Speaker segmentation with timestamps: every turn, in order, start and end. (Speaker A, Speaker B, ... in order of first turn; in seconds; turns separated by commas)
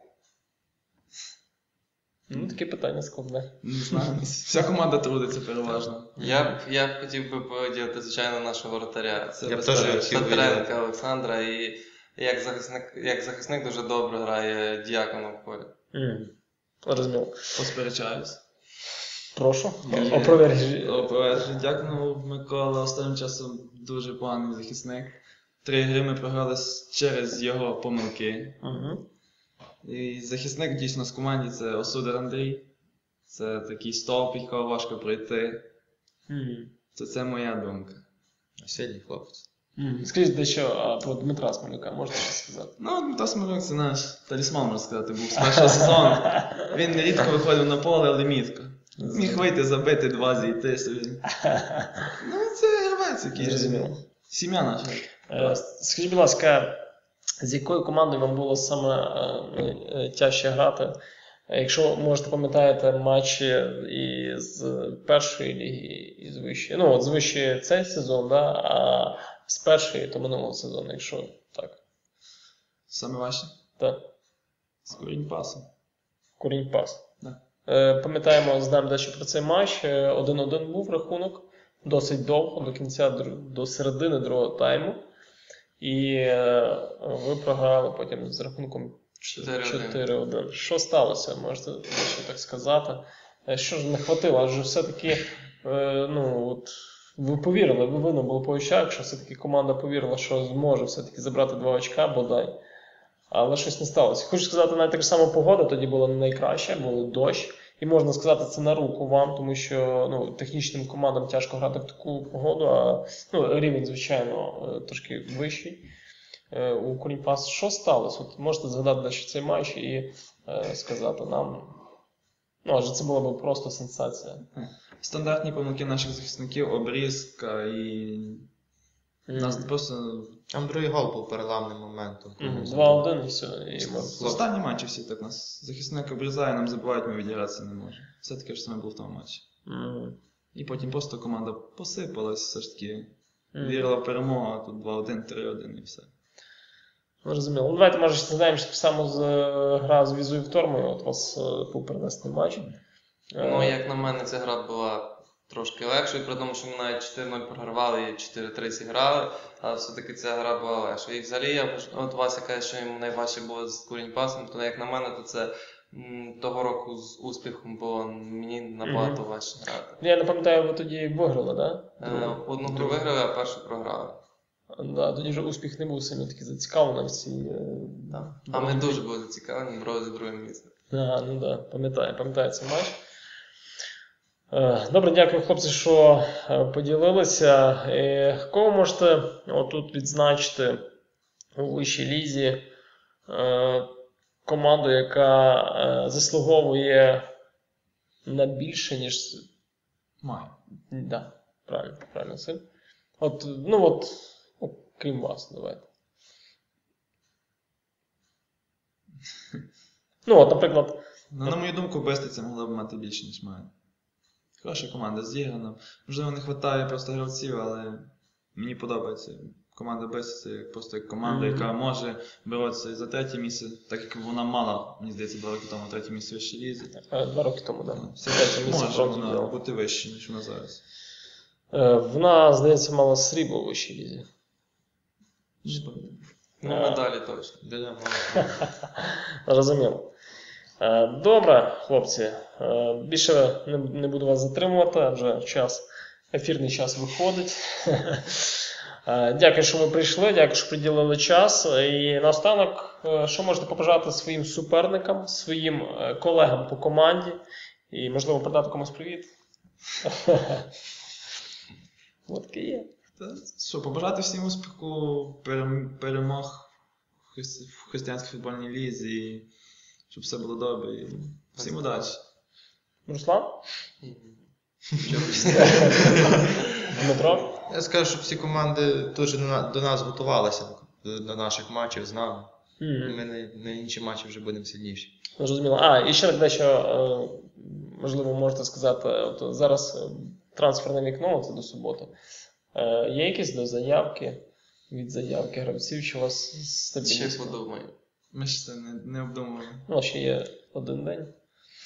Speaker A: 2.3-4.0, Speaker B: 3.6-6.2, Speaker C: 6.2-15.7, Speaker B: 9.4-10.3, Speaker D: 9.4-10.7, Speaker A: 15.9-17.4, Speaker B: 17.6-18.4, Speaker A: 19.3-21.1, Speaker B: 19.8-28.6, Speaker A: 28.6-29.0, Speaker B: 29.8-32.7, Speaker B: 33.3-35.7, Speaker A: 36.3-36.7, Speaker B: 36.9-38.0, Speaker D: 38.6-39.5, Speaker A: 39.8-42.8, Speaker B: 42.8-51.2, Speaker A: 45.9-46.1, Speaker A: 49.0-49.5, Speaker A: 51.5-52.1, Speaker B: 52.2-55.6, Speaker A: 53.4-54.0, Speaker A: 55.3-56.8, Speaker A: 57.4-61.0, Speaker A: 61.5-71.8, Speaker B: 72.9-73.5, Speaker B: 74.8-75.6, Speaker A: 76.4-77.0, Speaker A: 77.7-85.0, Speaker A: 85.8-102.5, Speaker C: 89.2-90.0, Speaker A: 103.3-115.8, Speaker A: 116.5-121.8, Speaker A: 122.6-124.4, Speaker B: 124.5-128.5, Speaker A: 129.3-129.7, Speaker B: 129.3-130.4, Speaker D: 130.5-133.0, Speaker A: 132.4-134.4, Speaker D: 134.0-134.4, Speaker B: 134.1-139.4, Speaker A: 139.7-140.2, Speaker B: 140.6-146.1, Speaker A: 143.5-143.9, Speaker A: 147.2-152.7, Speaker A: 153.3-153.8, Speaker C: 153.4-170.0, Speaker A: 168.8-169.2, Speaker A: 170.0-173.0, Speaker C: 172.0-174.2, Speaker A: 174.7-179.0, Speaker C: 178.1-180.7, Speaker A: 180.9-183.0, Speaker A: 184.5-190.8, Speaker A: 191.6-192.6, Speaker A: 193.3-193.9, Speaker A: 194.4-197.3, Speaker A: 198.2-199.4, Speaker B: 200.2-200.6, Speaker A: 200.9-202.6, Speaker A: 203.2-205.9, Speaker A: 210.2-211.5, Speaker B: 211.3-213.7, Speaker B: 214.6-227.0, Speaker A: 221.2-221.7, Speaker A: 227.0-229.6, Speaker B: 227.9-230.8, Speaker A: 231.7-234.3, Speaker B: 235.6-236.3, Speaker C: 236.6-237.6, Speaker A: 236.6-237.0, Speaker D: 237.6-238.7, Speaker A: 239.0-240.1, Speaker A: 240.8-259.3, Speaker A: 260.1-260.7, Speaker A: 262.3-262.9, Speaker B: 263.2-269.5, Speaker B: 270.1-272.2, Speaker C: 271.6-271.8, Speaker A: 273.1-273.6, Speaker C: 274.0-274.4, Speaker D: 275.0-276.4, Speaker C: 275.0-276.5, Speaker A: 275.5-277.5, Speaker D: 277.5-285.1, Speaker A: 282.8-283.2, Speaker A: 285.4-292.1, Speaker A: 292.7-297.6, Speaker C: 297.0-297.9, Speaker B: 298.3-299.9, Speaker A: 299.9-301.3